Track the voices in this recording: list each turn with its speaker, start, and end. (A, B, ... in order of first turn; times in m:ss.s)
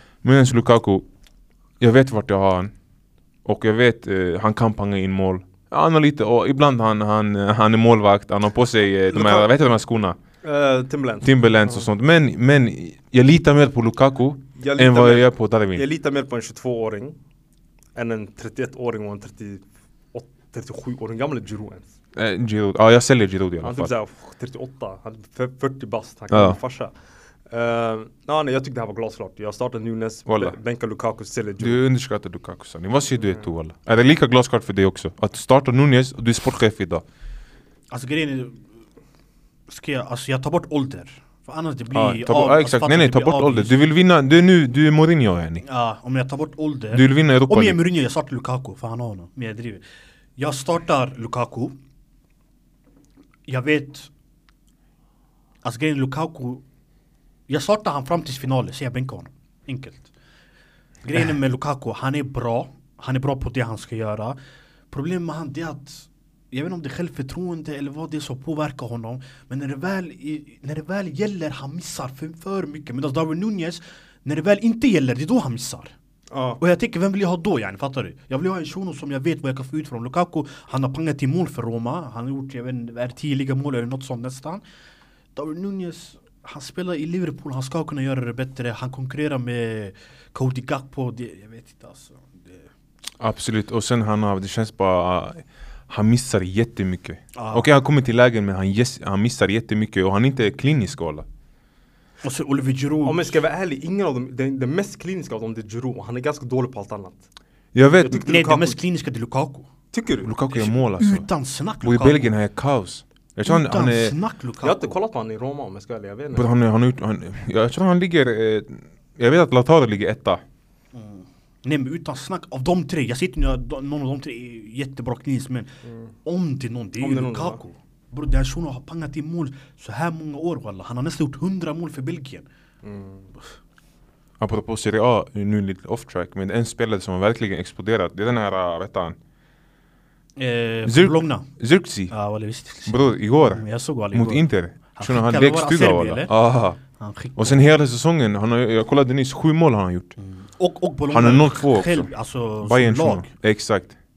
0:00.2-0:01.0 A
0:01.8-0:02.7 A
0:03.4-0:10.2 A
0:09.1-0:09.5 B
0:10.4-0:11.9 B
0:11.2-0:15.8 A
0:14.6-0:17.2 B
0:17.9-0:21.9 B
0:22.2-0:23.9 A
0:23.6-0:26.9 B
0:26.3-0:26.6 A
0:27.5-0:31.8 B
0:30.3-0:30.6 A
0:31.6-0:37.0 A
0:37.9-0:38.6 C
0:39.7-0:43.8 C
0:41.9-0:45.6 A
0:45.6-0:49.8 C
0:46.9-0:47.8 A
0:50.4-0:51.7 C
0:53.5-0:54.1 C
0:55.6-0:56.6 C
0:57.5-1:00.1 C
1:01.0-1:04.4 C
1:04.9-1:15.9 C
1:16.3-1:16.6 B
1:16.6-1:24.6 C
1:25.4-1:32.6 C
1:33.2-1:41.2 A
1:37.3-1:37.7 C
1:42.2-1:43.4 C
1:43.0-1:47.2 B
1:47.7-1:48.2 A
1:48.0-1:48.8 B
1:48.2-1:49.7 C
1:49.9-1:50.3 B
1:50.2-1:51.3 A
1:50.5-1:52.3 C
1:51.8-1:54.1 A
1:53.4-1:54.9 C
1:54.6-1:56.5 B
1:56.3-2:00.4 A
2:00.9-2:05.7 C
2:06.2-2:12.4 C
2:07.0-2:07.6 B
2:12.8-2:13.3 B
2:14.4-2:19.2 A
2:20.4-2:21.5 C
2:20.8-2:22.1 A
2:22.1-2:26.3 C
2:22.8-2:26.8 A
2:26.9-2:27.7 C
2:27.4-2:30.1 A
2:30.2-2:33.3 C
2:31.1-2:32.1 A
2:32.6-2:34.0 A